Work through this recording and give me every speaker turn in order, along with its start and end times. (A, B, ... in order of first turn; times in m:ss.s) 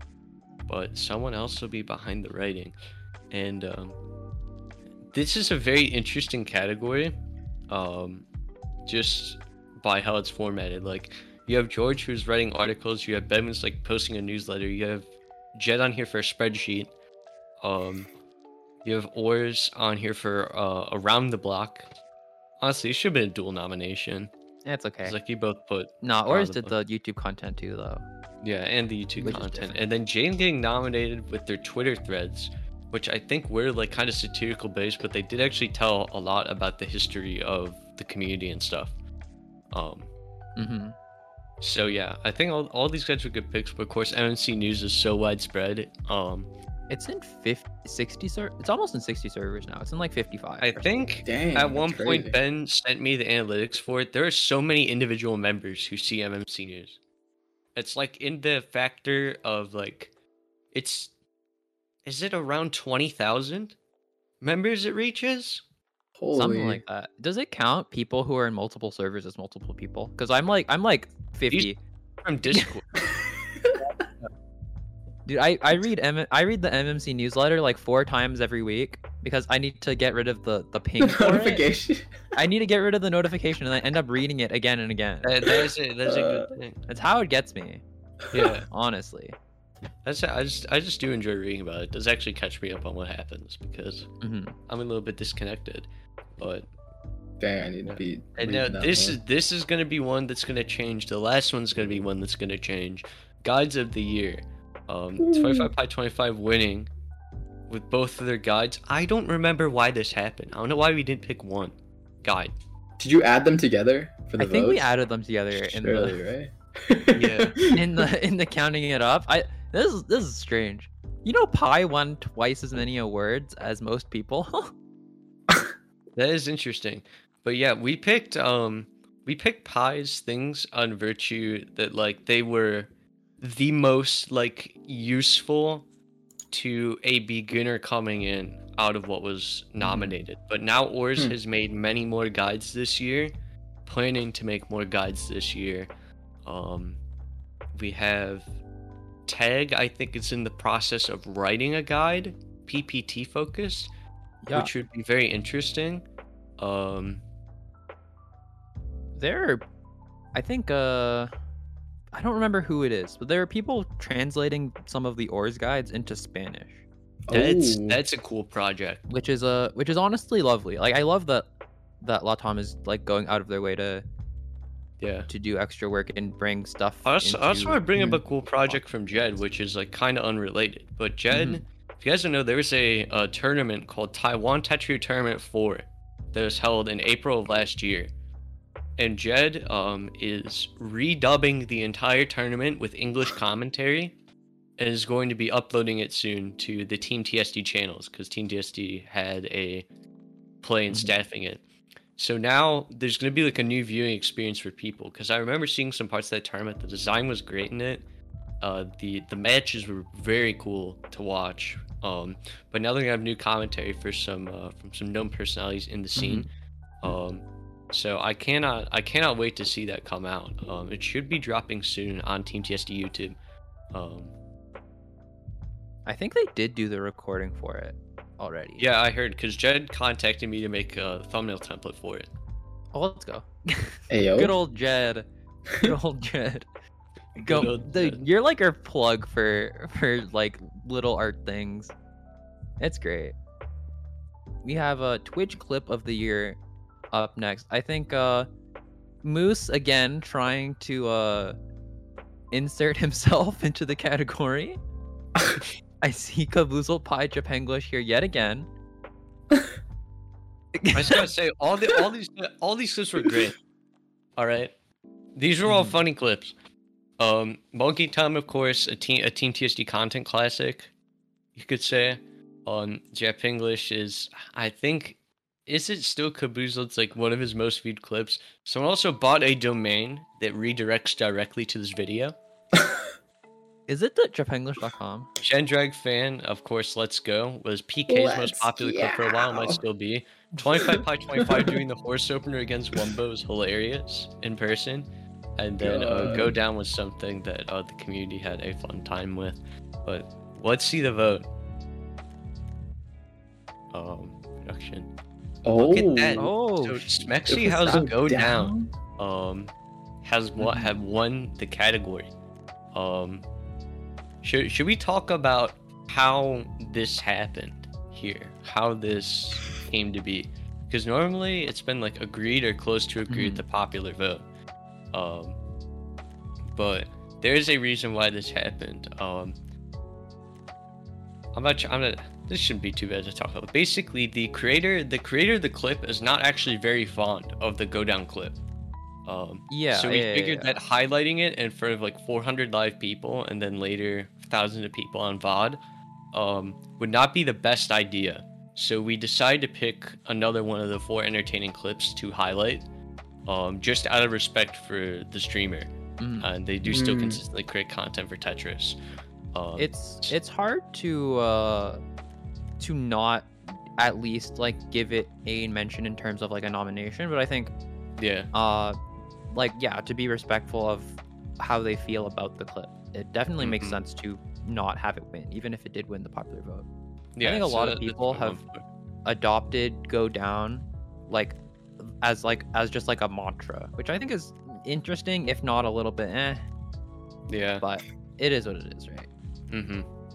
0:00.7-0:02.7 A
0:03.3-0:04.0 A
0:05.1-0:07.1 A
0:07.7-0:08.2 A
0:08.8-0:16.9 A
0:17.6-0:18.1 A
0:18.8-0:21.9 A
0:22.6-0:24.3 A
0:24.6-0:25.1 B
0:25.0-0:26.7 A
0:26.0-0:28.0 B
0:28.4-0:38.9 A
0:29.2-0:29.8 B
0:39.7-0:40.1 A
0:40.6-0:41.0 B
0:41.6-0:46.5 A
0:46.9-0:50.8 B
0:50.6-0:57.0 A
0:51.2-0:52.3 C
0:57.7-1:00.1 A
1:00.7-1:01.1 A
1:02.0-1:03.7 A
1:04.4-1:05.6 A
1:06.2-1:06.8 C
1:06.3-1:11.8 B
1:12.2-1:12.9 A
1:13.0-1:13.8 C
1:15.3-1:21.6 B
1:21.0-1:22.1 C
1:22.4-1:25.3 B
1:25.2-1:26.8 A
1:25.4-1:26.5 C
1:26.9-1:27.8 B
1:28.3-1:28.7 A
1:28.7-1:29.4 B
1:30.0-1:34.1 A
1:34.2-1:34.6 B
1:34.7-1:35.9 A
1:36.4-1:36.7 A
1:37.4-1:39.2 C
1:37.8-1:46.9 A
1:45.2-1:45.7 C
1:47.7-1:52.5 A
1:53.0-1:54.8 C
1:54.4-1:56.2 B
1:55.5-1:58.0 C
1:57.1-1:57.5 A
1:57.7-2:04.7 B
2:06.2-2:15.8 A
2:16.5-2:23.3 A
2:19.8-2:20.2 B
2:23.8-2:25.9 A
2:26.4-2:27.0 A
2:27.7-2:28.5 A
2:29.3-2:33.9 A
2:34.5-2:36.0 A
2:36.6-2:37.2 A
2:39.2-2:39.6 B
2:40.3-2:41.3 B
2:42.1-2:46.8 B
2:47.3-2:48.0 C
2:47.3-2:49.0 A
2:49.1-2:51.4 B
2:52.0-2:54.0 B
2:55.0-2:55.3 A
2:55.3-2:58.0 B
2:57.0-3:08.1 A
3:01.3-3:01.6 B
3:09.0-3:14.1 A
3:14.8-3:19.8 A
3:20.6-3:21.6 A
3:22.2-3:28.0 A
3:28.6-3:36.5 A
3:36.2-3:36.5 B
3:37.0-3:43.4 A
3:43.9-3:44.3 A
3:46.0-3:48.8 B
3:48.8-3:52.3 A
3:52.9-3:56.6 B
3:54.1-3:54.5 C
3:57.4-3:58.2 A
3:57.4-4:01.9 B
4:02.8-4:03.4 B
4:04.6-4:06.6 B
4:07.1-4:08.5 B
4:09.2-4:11.6 B
4:12.5-4:14.8 B
4:16.0-4:18.7 B
4:20.8-4:21.2 B
4:20.9-4:23.6 A
4:24.4-4:24.7 A
4:25.4-4:26.5 A
4:25.6-4:26.0 B
4:27.2-4:30.9 A
4:31.5-4:42.4 A
4:42.7-4:43.0 C
4:43.9-4:45.3 B
4:45.4-5:01.5 A
4:48.1-4:49.8 C
4:50.8-4:51.8 C
4:55.8-4:56.6 C
5:03.9-5:05.1 A
5:05.6-5:06.5 C
5:05.7-5:09.7 A
5:06.4-5:07.1 B
5:07.5-5:08.9 C
5:10.2-5:12.3 A
5:10.6-5:10.9 B
5:12.9-5:13.4 A
5:14.4-5:24.4 A
5:23.3-5:23.6 B
5:25.1-5:25.6 A
5:26.7-5:29.6 A
5:31.5-5:38.6 A
5:39.2-5:45.8 A
5:39.7-5:40.7 B
5:46.3-5:52.8 A
5:53.4-5:55.9 A
5:56.2-5:56.5 B
5:56.4-5:59.0 A
5:56.8-5:57.4 C
5:59.5-6:00.3 A
5:59.8-6:02.0 B
6:02.8-6:07.7 B
6:08.2-6:08.5 A
6:08.5-6:09.0 B
6:09.5-6:16.9 B
6:13.6-6:14.0 A
6:17.4-6:18.8 A
6:17.4-6:18.6 B
6:19.2-6:26.6 B
6:27.5-6:27.8 A
6:27.8-6:29.3 B
6:29.7-6:30.0 A